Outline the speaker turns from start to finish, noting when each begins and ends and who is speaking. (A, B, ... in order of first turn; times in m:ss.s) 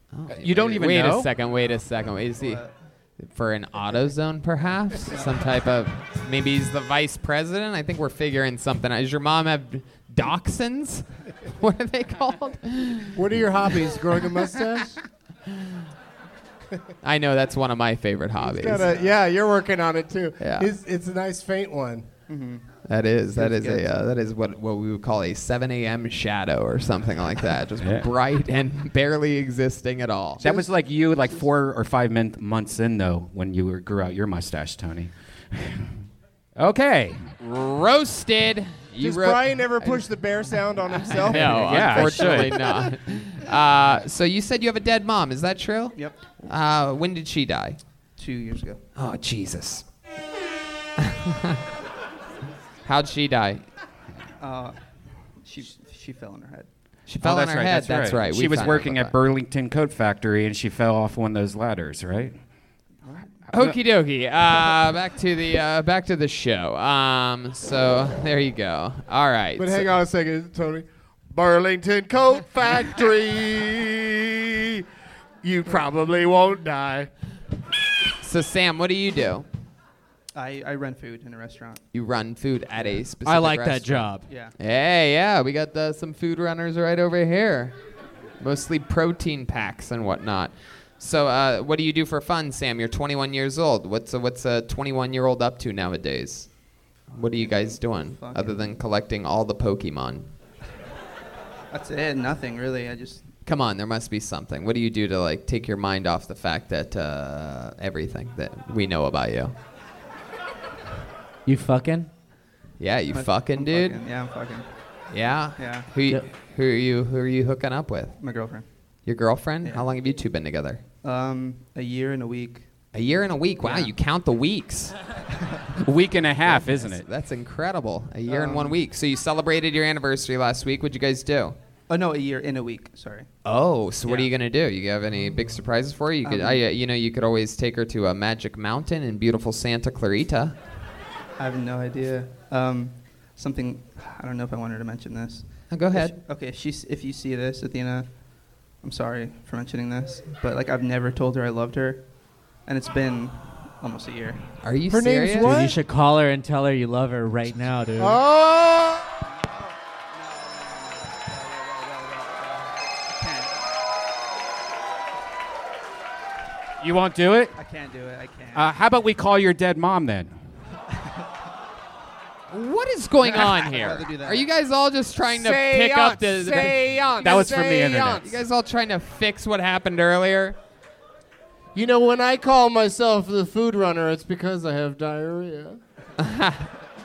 0:00.1-0:02.6 A
0:00.3-0:01.3 B
0:01.4-0:02.7 C
0:03.2-0:13.2 A
0:05.1-0:05.4 C
0:13.1-0:15.0 D
0:17.0-0:18.9 A
0:18.4-0:22.1 D
0:18.8-0:19.2 C
0:20.4-0:20.7 A
0:22.3-0:22.7 C
0:22.8-0:30.4 A
0:23.3-0:24.0 C
0:27.8-0:28.1 B
0:30.4-0:35.9 B
0:36.6-0:37.3 B
0:37.4-0:40.1 A
0:39.0-0:42.3 D
0:41.0-0:47.8 A
0:41.3-0:42.7 B
0:48.2-0:48.8 C
0:49.0-0:49.8 A
0:51.0-0:51.6 A
0:52.8-0:53.6 A
0:54.4-0:54.8 C
0:55.4-0:56.7 C
0:57.0-0:59.1 A
0:57.2-1:02.4 B
1:03.0-1:03.4 C
1:03.5-1:09.9 A
1:09.6-1:14.8 D
1:15.4-1:17.1 D
1:18.2-1:19.5 A
1:20.3-1:21.8 C
1:21.9-1:27.7 A
1:23.2-1:24.2 E
1:24.2-1:24.5 C
1:28.4-1:36.5 A
1:37.1-1:40.3 A
1:37.2-1:38.8 C
1:41.7-1:43.3 C
1:43.4-1:49.5 A
1:51.4-1:52.1 E
1:52.8-1:54.0 A
1:53.1-1:54.7 C
1:55.1-1:58.2 A
1:55.6-1:55.9 C
1:58.2-1:58.9 C
1:59.0-2:00.8 A
1:59.6-1:59.9 C
2:01.0-2:02.7 C
2:02.9-2:04.9 A
2:03.6-2:03.9 C
2:05.8-2:07.0 B
2:06.4-2:11.6 A
2:08.2-2:08.8 C
2:11.9-2:13.3 C
2:13.4-2:20.6 A
2:14.0-2:14.3 C
2:16.2-2:16.6 C
2:21.4-2:34.5 C
2:25.7-2:26.1 A
2:34.6-2:35.5 A
2:34.9-2:35.8 D
2:35.4-2:38.2 E
2:38.0-2:39.1 D
2:39.4-2:43.7 C
2:46.8-2:47.6 B
2:47.5-2:48.7 C
2:48.5-2:50.3 B
2:52.5-2:57.2 A
2:53.2-2:54.5 C
2:55.3-2:58.4 D
2:57.2-2:58.2 B
2:58.2-3:00.6 A
3:01.7-3:05.8 D
3:06.2-3:06.7 A